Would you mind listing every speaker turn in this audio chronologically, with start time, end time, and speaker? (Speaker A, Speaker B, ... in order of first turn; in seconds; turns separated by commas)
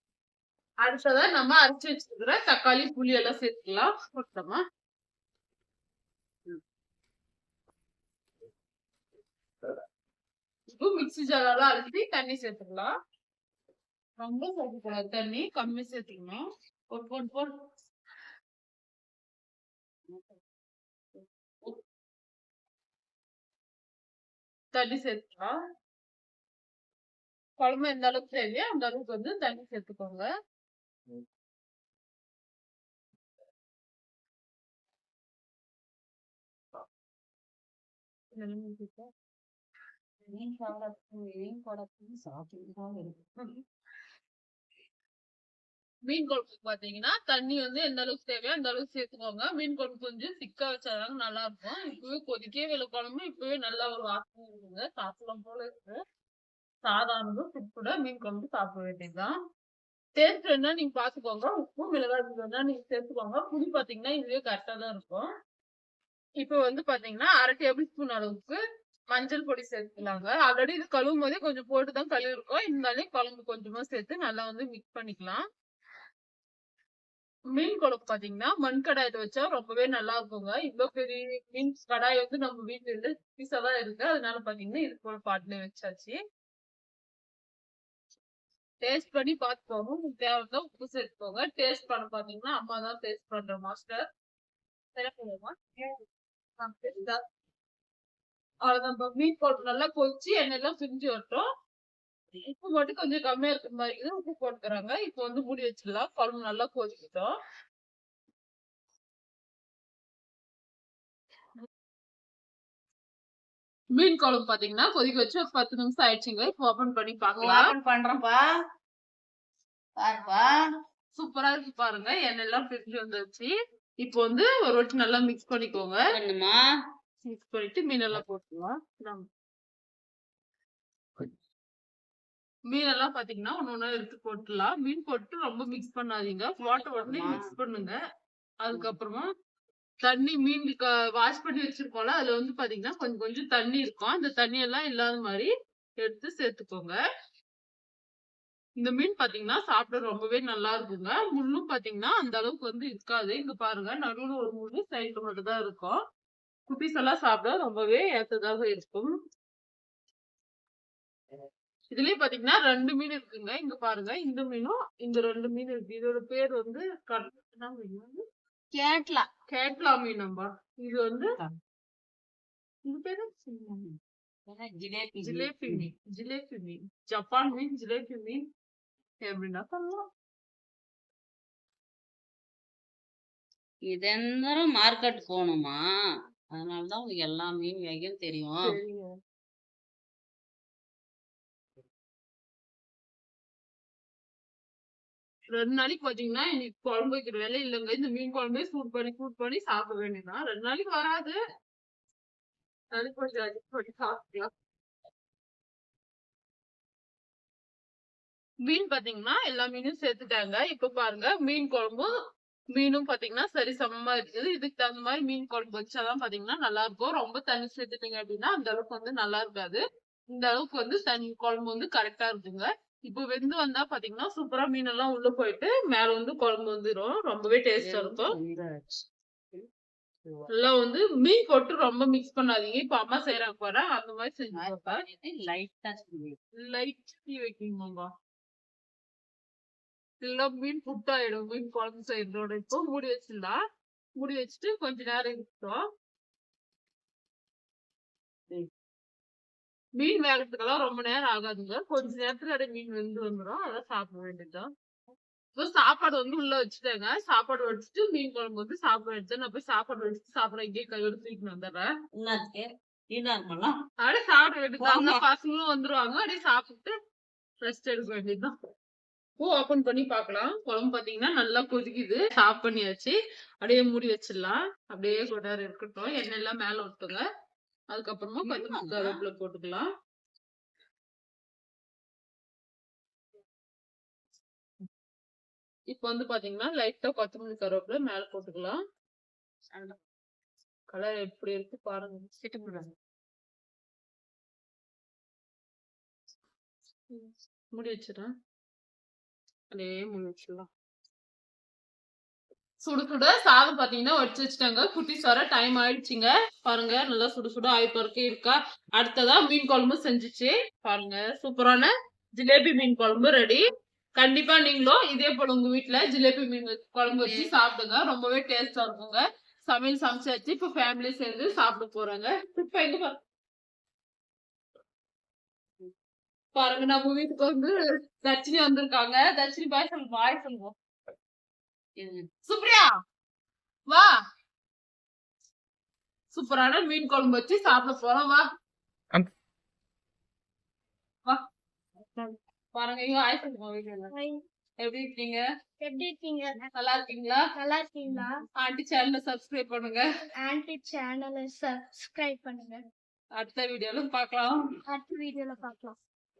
Speaker A: 0.8-4.6, Speaker A: 10.7-12.9, Speaker A: 14.2-16.4, Speaker B: 16.9-17.5, Speaker B: 20.1-20.4, Speaker B: 21.1-21.8, Speaker A: 24.7-25.5, Speaker A: 27.6-30.3, Speaker A: 38.4-39.1, Speaker B: 40.3-43.3, Speaker A: 46.1-56.0, Speaker A: 56.9-59.3, Speaker A: 60.2-65.3, Speaker A: 66.4-68.6, Speaker A: 69.1-75.4, Speaker A: 77.6-86.2, Speaker A: 88.8-94.1, Speaker A: 95.0-95.9, Speaker A: 96.6-97.2, Speaker A: 98.7-101.5, Speaker A: 102.5-107.3, Speaker A: 114.0-117.7, Speaker B: 117.4-118.5, Speaker B: 120.0-120.5, Speaker A: 121.2-123.5, Speaker A: 124.0-126.0, Speaker B: 126.2-126.6, Speaker A: 127.3-129.2, Speaker A: 132.7-138.0, Speaker B: 136.6-137.5, Speaker A: 138.6-139.3, Speaker A: 140.0-145.5, Speaker A: 146.0-147.0, Speaker A: 148.8-156.0, Speaker A: 156.7-159.1, Speaker A: 161.9-168.2, Speaker B: 168.7-169.3, Speaker A: 169.5-171.3, Speaker A: 172.8-173.4, Speaker B: 173.7-175.9, Speaker A: 175.2-178.4, Speaker A: 179.2-180.0, Speaker B: 183.9-185.8, Speaker B: 186.5-188.7, Speaker A: 188.6-189.1, Speaker A: 195.5-201.3, Speaker A: 202.9-204.5, Speaker A: 208.7-212.1, Speaker A: 212.8-219.8, Speaker A: 220.3-228.3, Speaker B: 227.8-229.0, Speaker A: 230.6-235.0, Speaker B: 234.5-236.4, Speaker A: 236.6-238.1, Speaker A: 240.2-243.6, Speaker A: 244.2-245.8, Speaker A: 250.0-254.7, Speaker A: 255.6-261.9, Speaker B: 262.1-263.7, Speaker A: 264.0-266.9, Speaker B: 264.8-265.2, Speaker A: 267.6-268.5, Speaker A: 269.4-277.2, Speaker A: 277.9-279.9, Speaker B: 278.4-279.2, Speaker A: 285.9-288.8, Speaker A: 290.9-292.3, Speaker B: 292.4-292.9, Speaker A: 297.1-298.3, Speaker A: 299.7-300.7, Speaker A: 302.9-313.6, Speaker A: 314.2-323.2, Speaker B: 317.2-317.5, Speaker A: 326.6-330.7, Speaker B: 332.0-332.3, Speaker A: 332.5-332.9, Speaker A: 336.3-338.4, Speaker A: 342.1-344.1, Speaker C: 344.1-344.4, Speaker A: 344.8-345.4, Speaker C: 345.8-346.7, Speaker A: 346.8-347.5, Speaker C: 347.6-348.4, Speaker A: 348.6-350.0, Speaker C: 350.4-352.8, Speaker A: 353.4-354.6, Speaker C: 354.9-356.0